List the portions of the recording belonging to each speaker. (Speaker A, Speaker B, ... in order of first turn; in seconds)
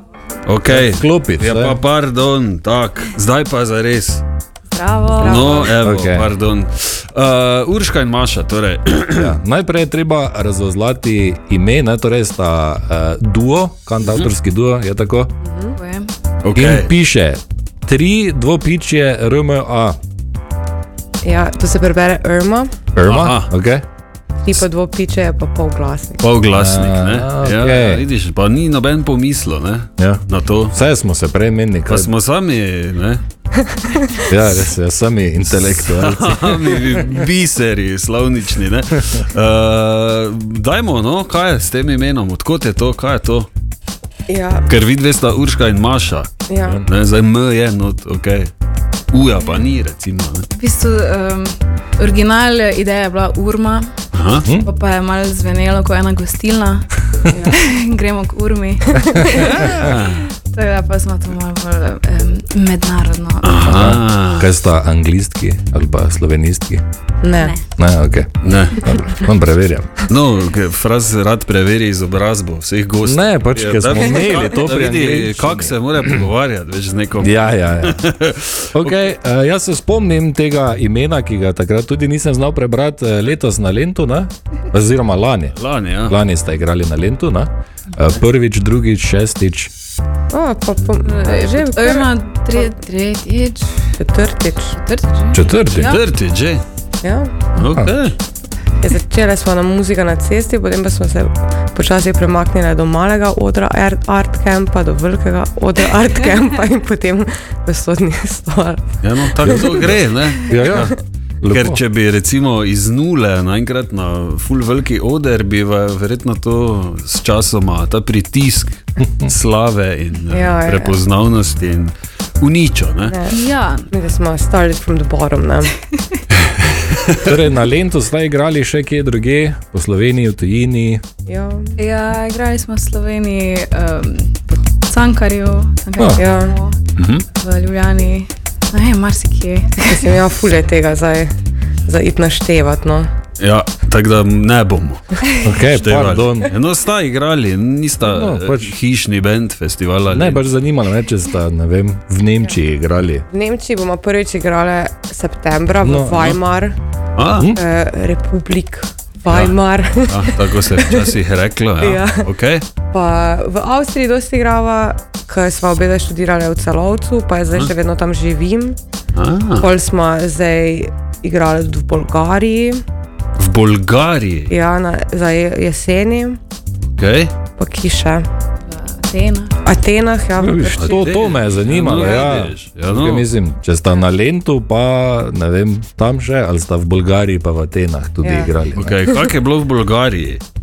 Speaker A: 0.5-4.2, 5.2-9.4, 14.0-14.3, 16.4-16.9, 23.0-23.5, 26.2-30.8, 31.9-33.2, 35.5-43.5, 44.7-46.3, 46.9-48.5, 49.1-50.5, 54.1-54.5, 59.4-60.2, 63.4-64.5, 68.4-68.8, 70.1-79.0, 85.5-86.2, 95.8-96.6, 97.5-98.2, 109.0-123.2, 136.9-137.2, 143.4-145.2, 145.7-150.4, 157.2-157.5, 159.3-159.6, 160.1-162.6, 169.2-169.7, 173.4-174.5, 177.0-177.3, 180.8-183.3, 188.8-190.4
Speaker B: 0.7-1.8, 5.8-6.3, 9.2-15.3, 16.6-20.0, 22.9-23.8, 26.5-28.0, 30.0-32.1, 34.3-37.2, 63.6-66.8, 67.8-70.0, 73.0-76.2, 77.2-78.0, 78.7-89.7, 95.3-95.9, 109.4-109.9, 110.4-111.8, 127.2-131.0, 136.0-136.2, 145.4-146.5, 148.0-148.8, 150.1-153.3, 155.8-156.3, 180.4-188.9
Speaker C: 4.7-5.7, 15.8-16.1, 50.5-53.9, 54.5-63.6, 67.4-67.6, 91.0-94.0, 94.7-96.0, 123.3-123.9, 131.8-136.8, 137.3-140.2, 178.6-179.6
Speaker D: 5.2-5.8, 15.4-15.8, 21.2-22.9, 24.4-26.3, 33.5-34.2, 44.3-44.7, 46.5-46.8, 67.2-67.5, 90.3-92.7, 94.0-94.8, 97.0-97.3, 98.8-109.7, 120.3-121.0, 123.1-125.7, 131.2-131.7, 136.2-136.6, 139.8-141.3, 141.8-143.1, 153.3-156.8, 157.5-161.1, 161.8-162.3, 162.9-168.8, 169.6-172.8, 174.5-176.4, 177.6-178.3, 179.6-181.1, 188.2-188.5